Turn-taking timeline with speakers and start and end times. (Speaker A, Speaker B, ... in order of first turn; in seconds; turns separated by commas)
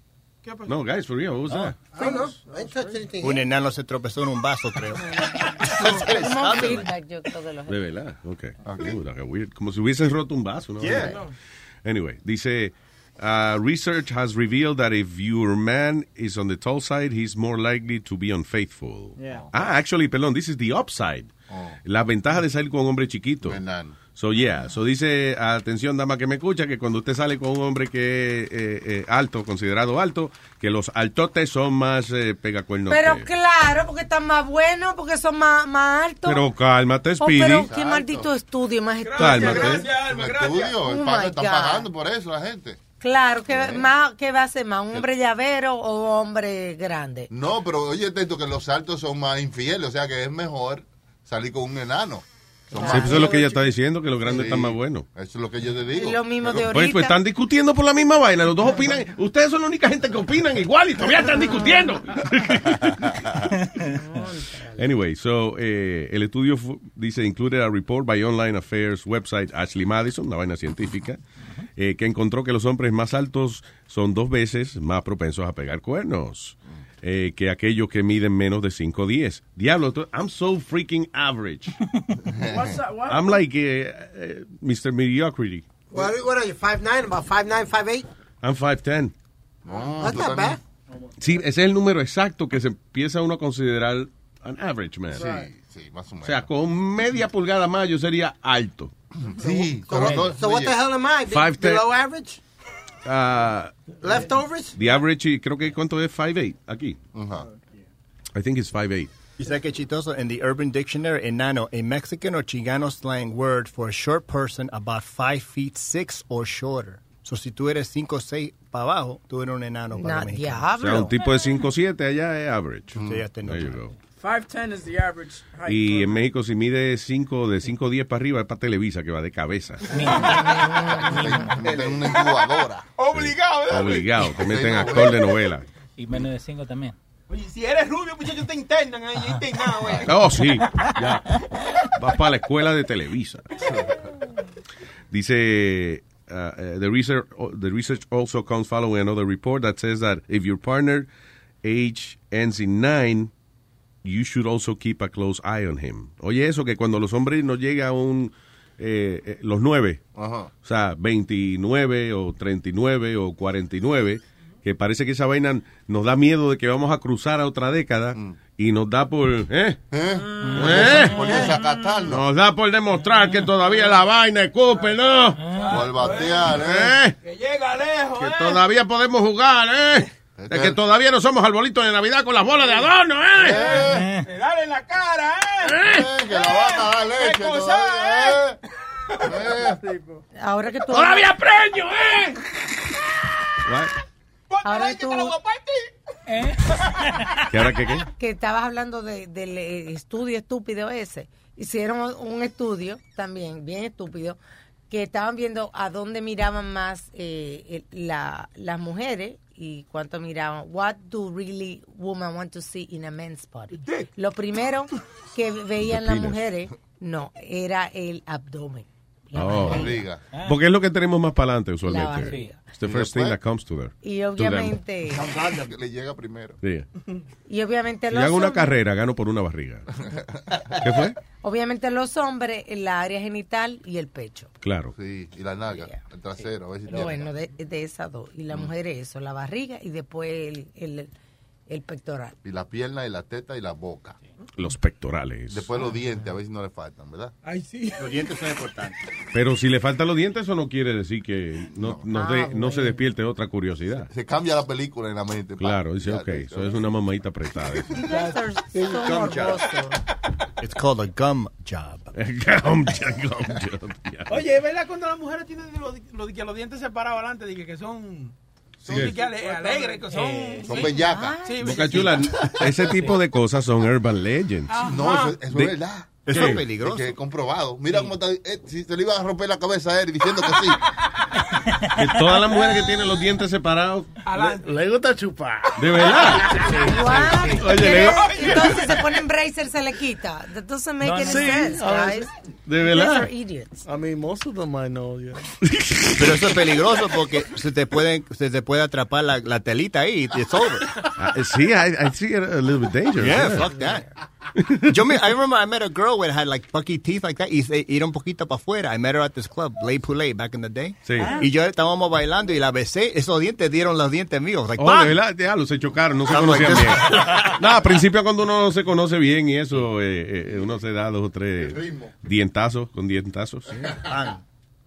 Speaker A: 0.4-0.8, Speaker B: 0.7-1.9, Speaker C: 1.9-3.4, Speaker D: 3.2-6.9, Speaker E: 5.7-7.8, Speaker B: 6.6-6.8, Speaker B: 7.7-11.3, Speaker F: 8.7-9.0, Speaker D: 10.8-11.2, Speaker B: 11.8-21.3, Speaker F: 21.5-21.8, Speaker B: 21.9-23.6, Speaker F: 23.4-24.0, Speaker B: 24.1-33.3, Speaker E: 32.9-36.5, Speaker B: 36.3-37.7, Speaker E: 37.2-39.8, Speaker F: 37.5-38.3, Speaker A: 39.0-40.8, Speaker B: 39.2-39.9, Speaker F: 39.4-42.8, Speaker E: 40.8-41.9, Speaker E: 43.0-47.3, Speaker F: 43.5-43.9, Speaker F: 47.3-53.6, Speaker E: 52.7-53.5, Speaker B: 52.8-55.1, Speaker F: 54.2-56.7, Speaker E: 55.9-57.1, Speaker B: 56.7-63.5, Speaker E: 61.2-61.9, Speaker G: 63.6-64.2, Speaker E: 63.8-64.9, Speaker B: 64.8-71.2, Speaker B: 71.8-81.8, Speaker F: 82.3-82.7, Speaker H: 82.5-83.4, Speaker B: 83.1-85.7, Speaker C: 85.9-88.1, Speaker B: 88.4-89.1, Speaker F: 89.7-90.6, Speaker C: 90.0-90.6, Speaker B: 91.2-95.3, Speaker F: 95.1-96.5, Speaker B: 96.2-98.9, Speaker F: 99.2-100.8, Speaker C: 99.4-102.4, Speaker B: 101.3-101.9, Speaker B: 103.0-104.0, Speaker C: 104.0-104.8, Speaker B: 104.7-107.0, Speaker F: 107.1-107.5, Speaker B: 108.3-109.1, Speaker D: 109.4-120.7, Speaker E: 119.9-121.1, Speaker B: 120.8-123.9, Speaker F: 123.0-123.2, Speaker D: 123.0-123.8, Speaker H: 124.2-126.2, Speaker B: 125.7-130.1, Speaker G: 129.9-131.6, Speaker F: 130.3-132.9, Speaker E: 130.4-131.1, Speaker A: 131.7-134.2, Speaker B: 133.1-135.7, Speaker F: 134.3-135.3, Speaker G: 136.0-137.0, Speaker A: 137.3-140.1, Speaker F: 139.8-140.1, Speaker B: 140.0-141.3, Speaker B: 142.0-143.5, Speaker F: 143.6-143.9, Speaker B: 145.1-151.1, Speaker B: 151.6-153.3, Speaker B: 154.0-160.0, Speaker F: 160.2-160.5, Speaker B: 160.6-169.8, Speaker F: 169.9-172.2, Speaker G: 170.4-171.1, Speaker B: 170.5-171.4, Speaker B: 172.1-175.4, Speaker A: 175.6-176.5, Speaker F: 175.7-177.0, Speaker B: 176.5-177.2, Speaker A: 177.2-178.6, Speaker B: 178.2-183.8, Speaker F: 180.4-180.8, Speaker F: 183.4-184.1, Speaker A: 183.5-188.4, Speaker G: 183.8-184.2, Speaker B: 185.7-186.1, Speaker F: 185.8-188.6, Speaker F: 189.2-189.8, Speaker H: 189.7-190.2, Speaker E: 190.4-191.3, Speaker A: 190.9-192.4, Speaker B: 193.7-193.9, Speaker A: 194.5-195.9, Speaker E: 194.6-195.4, Speaker G: 196.3-197.4, Speaker B: 197.5-198.1, Speaker E: 198.2-204.4, Speaker E: 204.9-220.1, Speaker A: 213.7-214.1, Speaker B: 215.8-216.4, Speaker B: 219.4-224.8, Speaker F: 219.7-220.2, Speaker E: 221.8-222.6, Speaker G: 222.2-222.5, Speaker F: 222.8-223.4, Speaker E: 224.0-225.3, Speaker F: 225.1-226.6, Speaker B: 226.6-226.9, Speaker E: 227.5-228.8, Speaker B: 228.1-229.9, Speaker B: 230.8-231.2, Speaker E: 231.4-234.5, Speaker B: 234.6-234.9, Speaker F: 234.9-237.3, Speaker E: 235.7-236.0, Speaker E: 236.9-241.1, Speaker E: 241.7-242.4, Speaker F: 242.4-244.2, Speaker B: 244.6-245.7, Speaker F: 245.5-247.3, Speaker A: 247.4-248.1, Speaker D: 247.9-249.0, Speaker B: 249.3-254.1, Speaker F: 251.8-252.1, Speaker E: 252.1-253.0, Speaker F: 254.1-256.8, Speaker B: 255.6-258.0, Speaker E: 257.9-260.0, Speaker D: 258.7-259.7, Speaker D: 260.6-262.1, Speaker B: 262.1-264.5, Speaker A: 264.3-268.3, Speaker F: 268.9-269.2, Speaker A: 268.9-270.9, Speaker G: 270.1-270.6, Speaker F: 270.6-271.4, Speaker E: 270.7-271.9, Speaker A: 271.4-272.3, Speaker B: 271.6-274.8, Speaker A: 274.7-275.4, Speaker F: 274.8-280.8, Speaker D: 276.3-277.2, Speaker B: 276.3-276.6, Speaker G: 281.8-282.3, Speaker B: 281.9-284.1, Speaker A: 284.3-284.7, Speaker I: 284.4-285.9, Speaker B: 285.8-286.7, Speaker G: 286.6-287.7, Speaker E: 286.7-293.9, Speaker B: 287.5-288.7, Speaker G: 291.0-291.8, Speaker I: 291.2-292.3, Speaker B: 292.7-293.3, Speaker I: 293.9-295.4, Speaker B: 295.7-296.4, Speaker D: 296.2-300.9, Speaker B: 301.2-303.7, Speaker D: 303.2-304.1, Speaker D: 304.8-315.2, Speaker B: 311.1-311.4, Speaker B: 314.8-323.9, Speaker D: 316.3-317.5, Speaker F: 321.6-322.1, Speaker D: 324.0-324.4